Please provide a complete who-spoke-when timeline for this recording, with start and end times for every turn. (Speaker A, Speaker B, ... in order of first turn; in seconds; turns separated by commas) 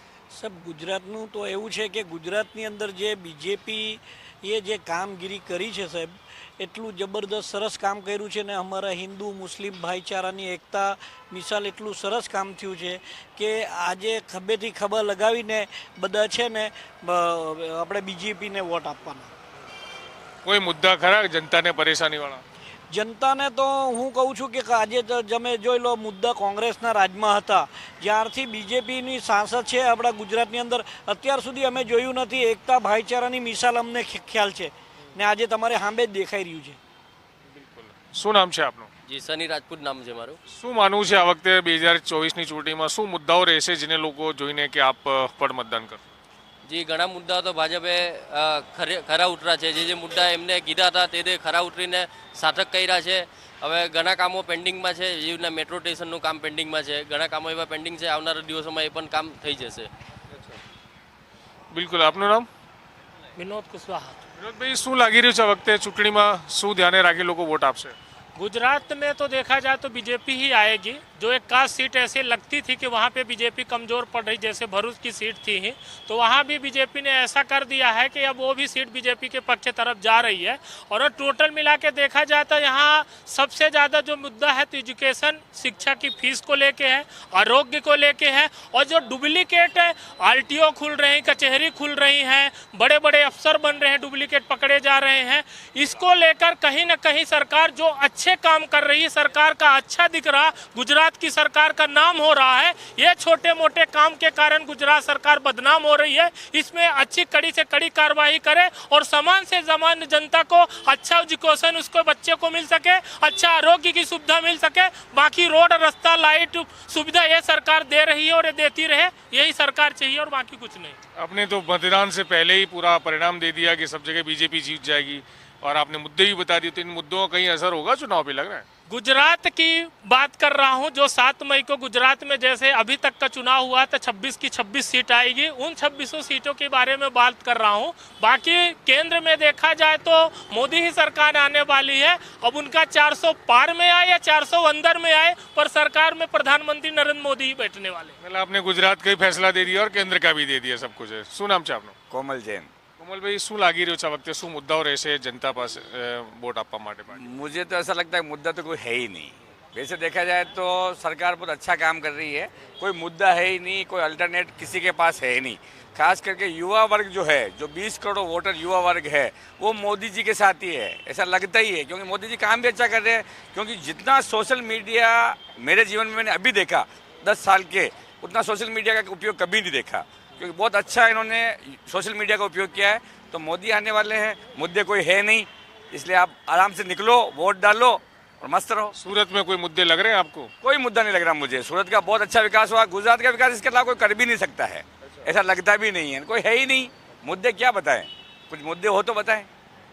Speaker A: 0.3-19.3, Speaker B: 20.4-22.4, Speaker A: 22.9-36.8, Speaker B: 37.5-38.9, Speaker C: 39.0-40.4, Speaker B: 40.5-46.0, Speaker C: 46.6-59.9, Speaker B: 61.7-62.5, Speaker D: 63.4-64.2, Speaker B: 64.4-67.9, Speaker D: 68.3-121.0, Speaker B: 121.2-128.7, Speaker D: 128.9-148.2, Speaker B: 148.2-151.9, Speaker E: 152.1-152.7, Speaker B: 152.9-157.2, Speaker E: 157.1-188.9, Speaker B: 188.9-190.5, Speaker E: 190.6-199.5